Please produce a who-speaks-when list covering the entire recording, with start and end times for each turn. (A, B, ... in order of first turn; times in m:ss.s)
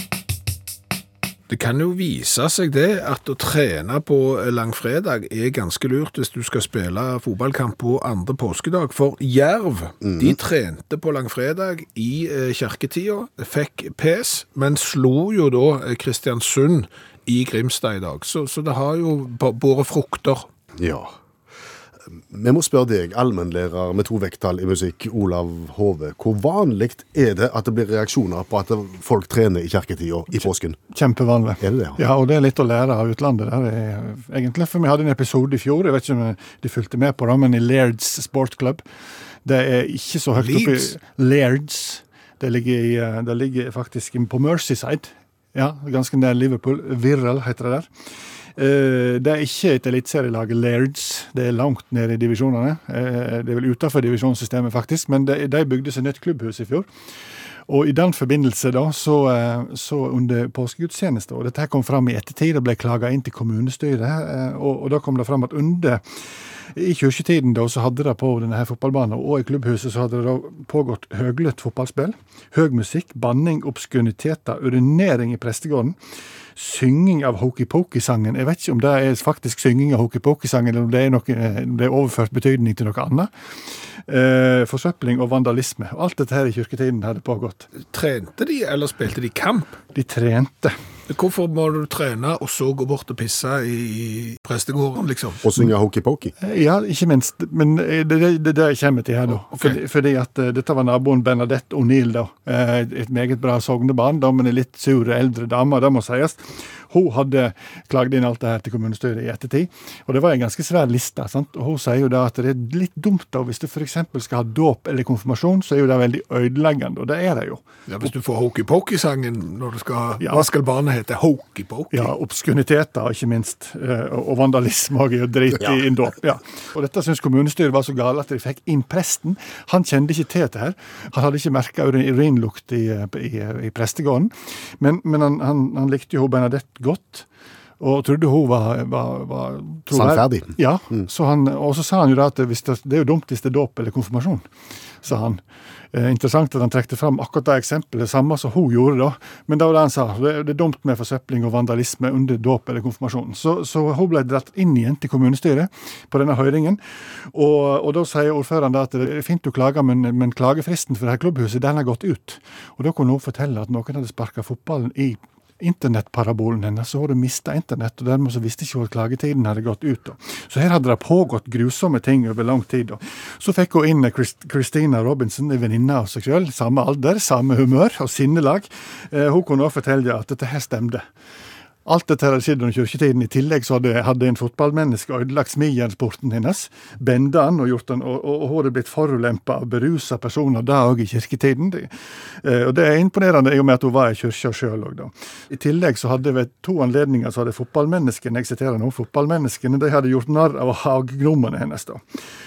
0:01.5-0:20.5 A
0:10.0-0:10.4 B
0:20.8-0:21.1 B
0:22.3-0:30.8 B
0:30.9-0:38.8 C
0:31.6-0:32.0 B
0:39.4-0:47.9 C
0:40.3-0:40.9 A
0:48.6-0:56.9 C
0:57.7-1:06.0 C
1:06.7-1:16.0 C
1:16.6-1:27.7 C
1:27.8-1:29.8 A
1:29.9-1:30.8 C
1:31.1-1:35.5 A
1:35.4-1:36.3 B
1:36.4-1:58.1 C
1:39.5-1:39.8 A
1:57.9-2:02.1 A
2:00.2-2:00.5 C
2:01.9-2:17.2 C
2:17.8-2:24.5 C
2:19.9-2:21.0 B
2:25.0-2:25.4 C
2:25.9-3:01.0 C
3:01.8-3:22.0 C